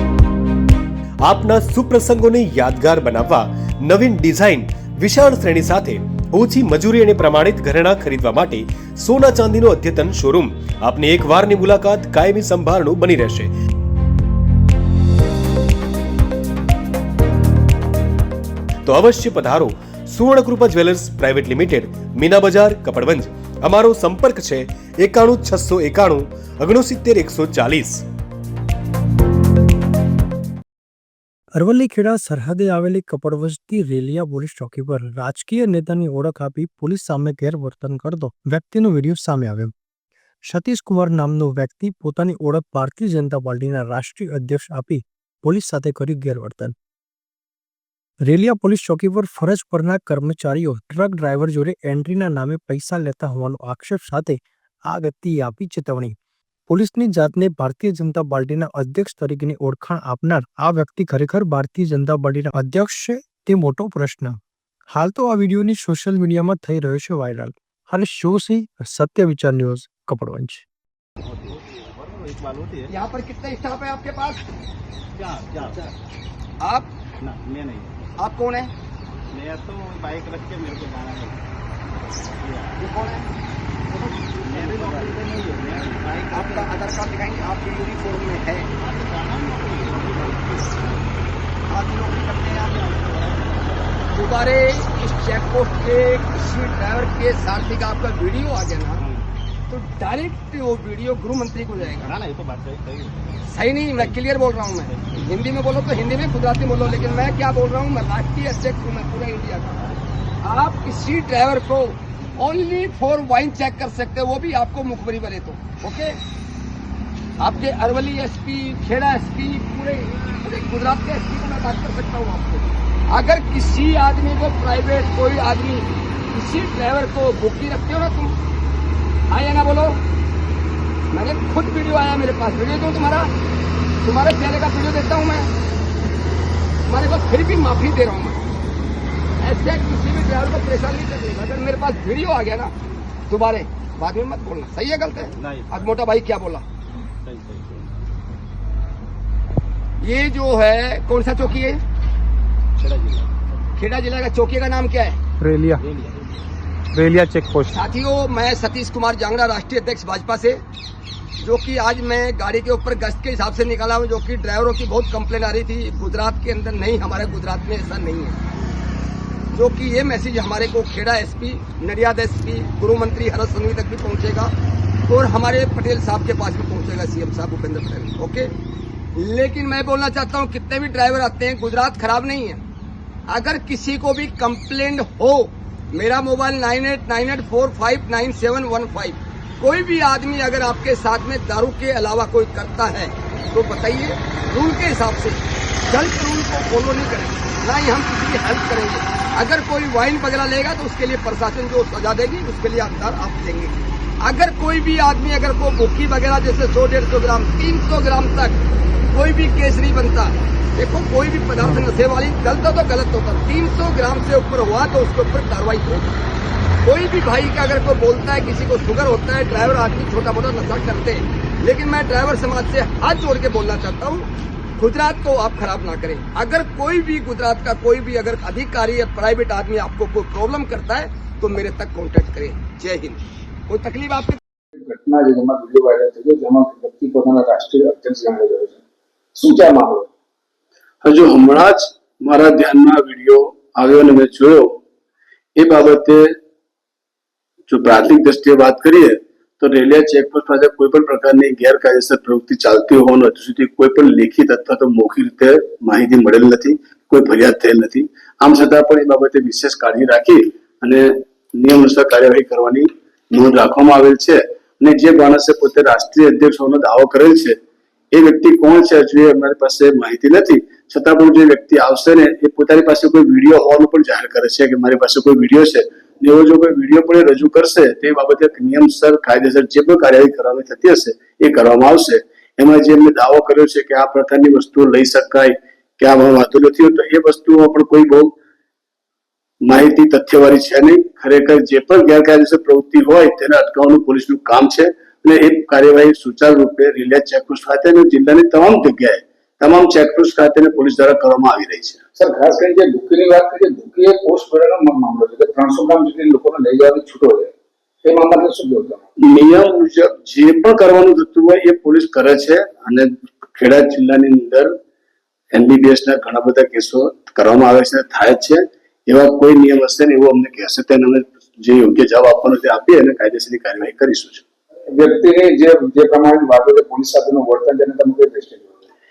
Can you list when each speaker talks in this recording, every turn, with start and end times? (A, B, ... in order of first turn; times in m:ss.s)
0:01.2-0:13.5 A
0:18.8-0:28.0 A
0:31.6-0:39.7 B
0:40.4-0:46.8 B
0:48.3-0:56.2 B
0:56.7-1:04.4 B
1:04.9-1:10.6 B
1:11.2-1:12.9 C
1:12.9-1:14.4 D
1:15.2-1:15.9 C
1:16.6-1:16.9 D
1:17.2-1:18.1 C
1:18.2-1:18.7 D
1:19.3-1:21.4 C
1:22.1-1:22.8 C
1:22.8-1:23.3 D
1:23.9-1:26.8 C
1:24.7-1:25.1 D
1:26.3-1:28.7 D
1:28.8-1:31.1 C
1:31.7-1:32.3 D
1:32.2-1:34.0 C
1:34.1-1:39.0 D
1:39.0-1:39.3 C
1:39.7-1:42.2 D
1:41.8-1:43.4 C
1:43.5-1:49.9 D
1:44.0-1:44.2 C
1:44.9-1:45.1 C
1:50.4-1:56.2 D
1:57.4-2:08.4 D
2:09.3-2:10.0 D
2:11.1-2:13.3 D
2:14.0-2:15.5 D
2:16.9-2:18.4 D
2:19.4-2:22.7 D
2:23.3-2:26.6 D
2:25.4-2:26.0 C
2:27.2-2:28.0 C
2:30.0-2:31.8 D
2:32.8-2:33.5 C
2:33.8-2:35.2 D
2:35.4-2:35.8 B
2:35.8-2:36.3 C
2:36.9-2:37.7 B
2:37.7-2:40.6 D
2:41.4-2:48.4 D
2:49.5-2:54.5 D
2:55.1-2:58.5 D
2:59.2-3:02.6 D
3:03.3-3:36.2 D
3:36.8-3:54.4 D
3:54.8-3:58.8 E
3:59.4-4:00.1 E
4:01.0-4:04.7 F
4:05.6-4:06.2 F
4:07.7-4:27.6 F
4:28.1-4:48.4 F
4:49.6-5:02.0 F
5:02.2-5:07.5 E
5:08.0-5:09.0 E
5:09.2-5:14.7 F
5:15.5-5:24.5 F
5:24.9-5:28.9 E